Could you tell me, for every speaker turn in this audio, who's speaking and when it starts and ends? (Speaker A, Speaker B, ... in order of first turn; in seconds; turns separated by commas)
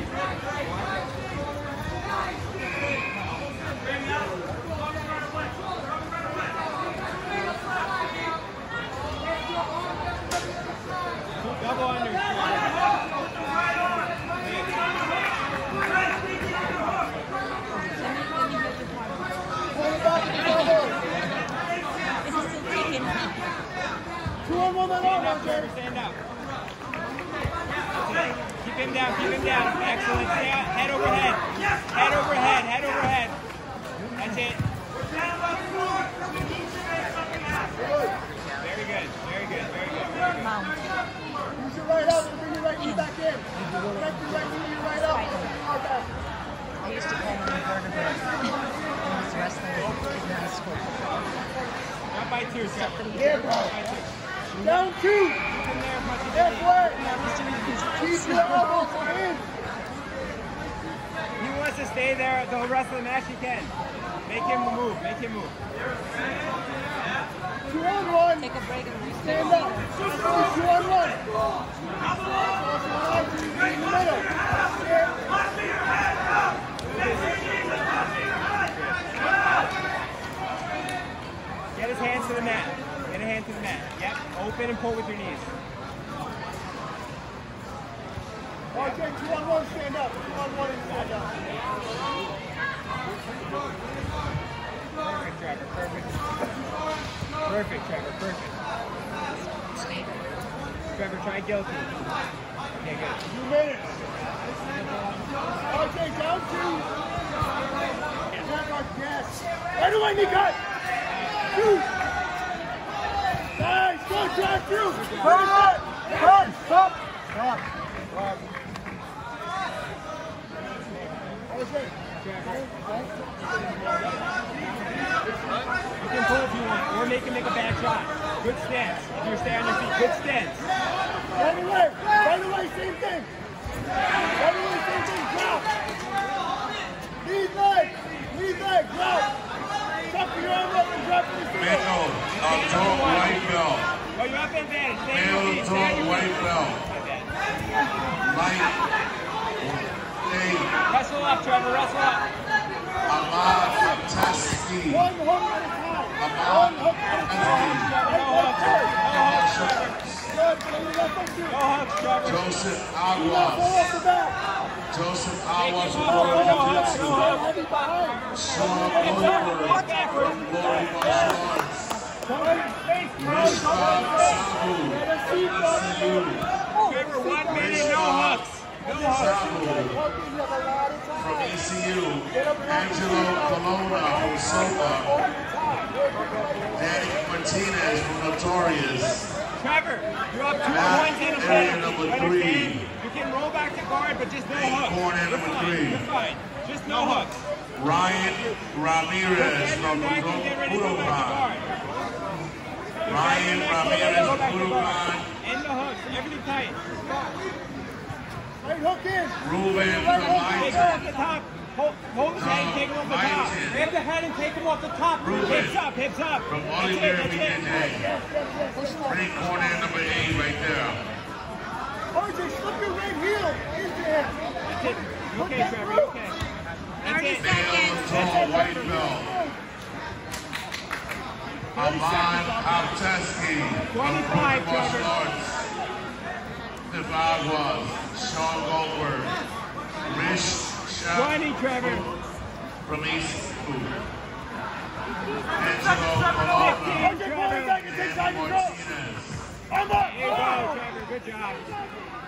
Speaker A: 0.6-1.1, Speaker A: 11.4-12.8, Speaker B: 17.7-19.5, Speaker C: 19.7-21.0, Speaker B: 22.2-23.5, Speaker C: 24.4-25.5, Speaker A: 25.0-26.2, Speaker A: 27.9-33.4, Speaker A: 34.1-34.6, Speaker A: 38.6-40.5, Speaker B: 40.4-41.0, Speaker C: 41.6-46.1, Speaker B: 42.0-43.1, Speaker B: 43.6-44.2, Speaker B: 45.0-45.5, Speaker B: 46.8-51.1, Speaker A: 52.1-54.1, Speaker B: 52.8-53.3, Speaker C: 54.6-55.4, Speaker A: 55.5-56.9, Speaker C: 56.5-57.0, Speaker B: 56.9-59.0, Speaker C: 58.0-59.5, Speaker A: 61.4-65.6, Speaker C: 67.7-68.5, Speaker B: 68.4-70.0, Speaker C: 69.3-71.2, Speaker C: 72.4-75.2, Speaker A: 76.8-79.2, Speaker A: 81.7-85.5, Speaker A: 88.7-89.2, Speaker C: 88.8-91.3, Speaker A: 95.0-96.3, Speaker A: 97.4-98.5, Speaker B: 99.4-100.2, Speaker A: 100.9-102.1, Speaker A: 102.8-103.2, Speaker C: 103.3-104.0, Speaker B: 104.9-105.4, Speaker C: 105.7-106.9, Speaker C: 108.4-110.6, Speaker C: 111.5-111.9, Speaker C: 113.6-116.9, Speaker A: 114.9-115.6, Speaker C: 121.5-121.9, Speaker A: 122.2-122.7, Speaker A: 126.0-130.7, Speaker C: 131.3-133.3, Speaker C: 134.4-135.7, Speaker C: 137.2-139.3, Speaker C: 140.1-141.9, Speaker D: 141.6-143.9, Speaker A: 142.3-143.5, Speaker A: 144.1-147.3, Speaker D: 145.1-146.9, Speaker D: 148.2-148.8, Speaker D: 149.6-150.8, Speaker A: 150.9-152.2, Speaker D: 153.1-155.1, Speaker C: 154.9-158.9, Speaker D: 156.2-157.9, Speaker A: 157.3-160.0, Speaker D: 159.0-160.3, Speaker C: 160.3-161.6, Speaker A: 161.5-162.6, Speaker D: 162.2-163.9, Speaker C: 163.2-164.4, Speaker D: 164.9-167.4, Speaker A: 165.6-171.4, Speaker C: 166.1-168.2, Speaker D: 168.3-172.0, Speaker A: 172.3-174.4, Speaker D: 173.2-176.5, Speaker C: 173.4-174.4, Speaker C: 174.9-176.2, Speaker A: 176.8-179.3, Speaker C: 177.1-178.0, Speaker D: 177.5-178.4, Speaker D: 179.1-180.0, Speaker C: 179.4-181.5, Speaker D: 181.2-185.1, Speaker C: 182.4-185.3, Speaker A: 185.2-186.0, Speaker D: 186.7-189.3, Speaker A: 189.6-197.4, Speaker D: 190.7-192.9, Speaker C: 191.1-191.7, Speaker D: 194.5-196.1, Speaker D: 197.7-201.5, Speaker A: 199.3-201.7, Speaker A: 203.1-207.4, Speaker D: 203.1-205.3, Speaker C: 208.6-211.0, Speaker D: 209.4-211.1, Speaker A: 210.5-218.0, Speaker D: 212.4-213.9, Speaker D: 215.2-215.8, Speaker D: 216.5-218.1, Speaker C: 217.9-219.2, Speaker B: 218.8-219.2, Speaker D: 219.1-221.0, Speaker C: 222.1-224.4, Speaker A: 224.7-226.4, Speaker C: 225.4-226.0, Speaker A: 227.0-228.5, Speaker B: 227.1-228.1, Speaker D: 227.4-229.4, Speaker C: 228.2-229.5, Speaker D: 231.7-235.7, Speaker C: 231.8-232.7, Speaker A: 233.9-235.2, Speaker D: 236.9-239.4, Speaker D: 240.1-242.1, Speaker A: 241.1-242.1, Speaker D: 242.8-244.0, Speaker D: 245.6-247.1, Speaker A: 246.5-247.8, Speaker C: 247.0-248.8, Speaker D: 247.8-249.5, Speaker C: 249.7-250.7, Speaker A: 249.9-251.8